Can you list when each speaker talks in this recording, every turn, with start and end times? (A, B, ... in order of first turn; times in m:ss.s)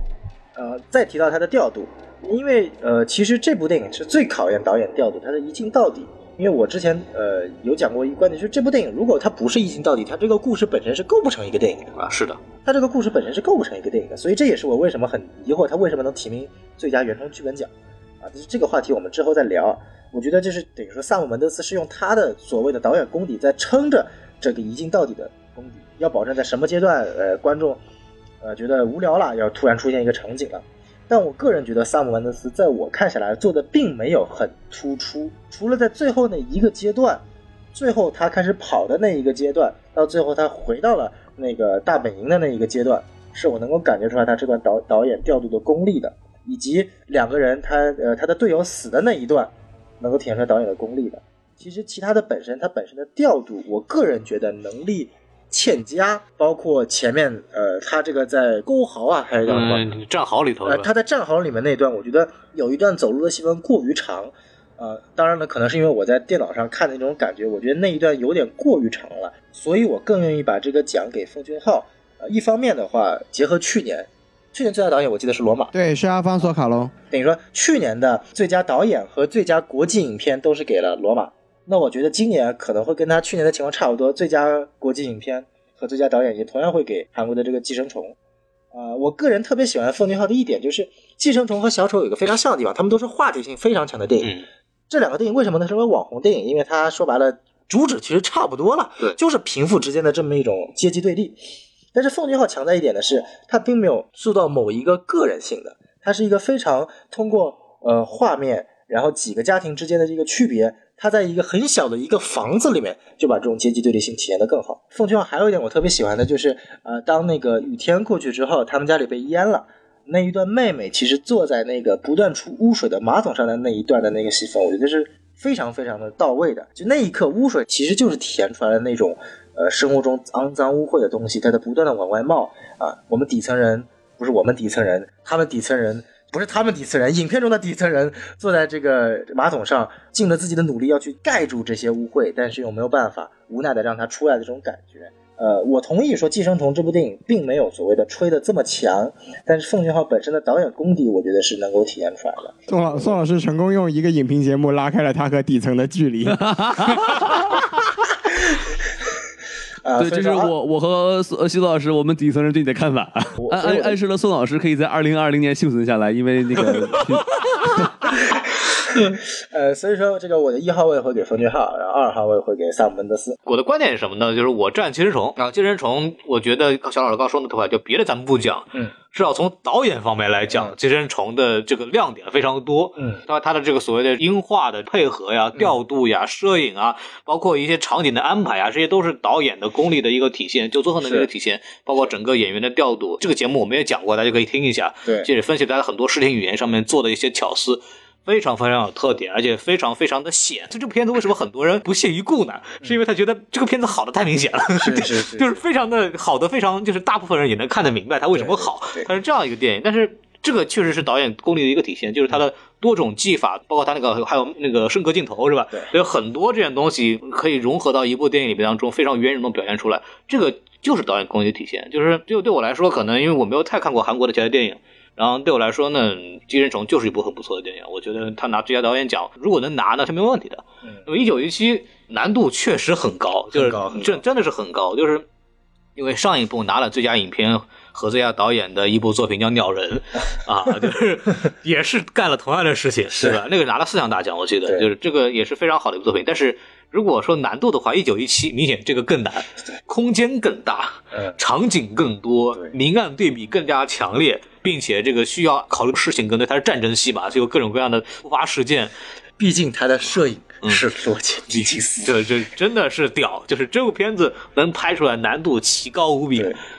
0:00.6-0:11.9 A
0:12.0-0:12.4 B
0:12.6-0:17.7 A
0:18.2-0:27.8 A
0:28.4-0:37.2 A
0:37.7-0:59.8 A
0:59.5-1:00.9 B
1:00.6-1:15.7 A
1:15.7-1:16.9 C
1:17.1-1:28.1 A
1:28.7-1:41.4 A
1:41.9-2:33.1 A
2:32.7-2:36.5 C
2:36.3-2:37.5 D
2:39.8-2:40.5 A
2:40.0-2:47.8 D
2:43.4-2:44.0 A
2:48.9-2:53.4 A
2:53.4-3:55.2 B
3:11.0-3:11.3 A
3:24.8-3:25.6 A
3:28.3-3:29.1 A
3:53.5-3:54.2 A
3:56.0-4:18.9 B
4:19.4-4:22.2 A
4:21.5-4:26.6 B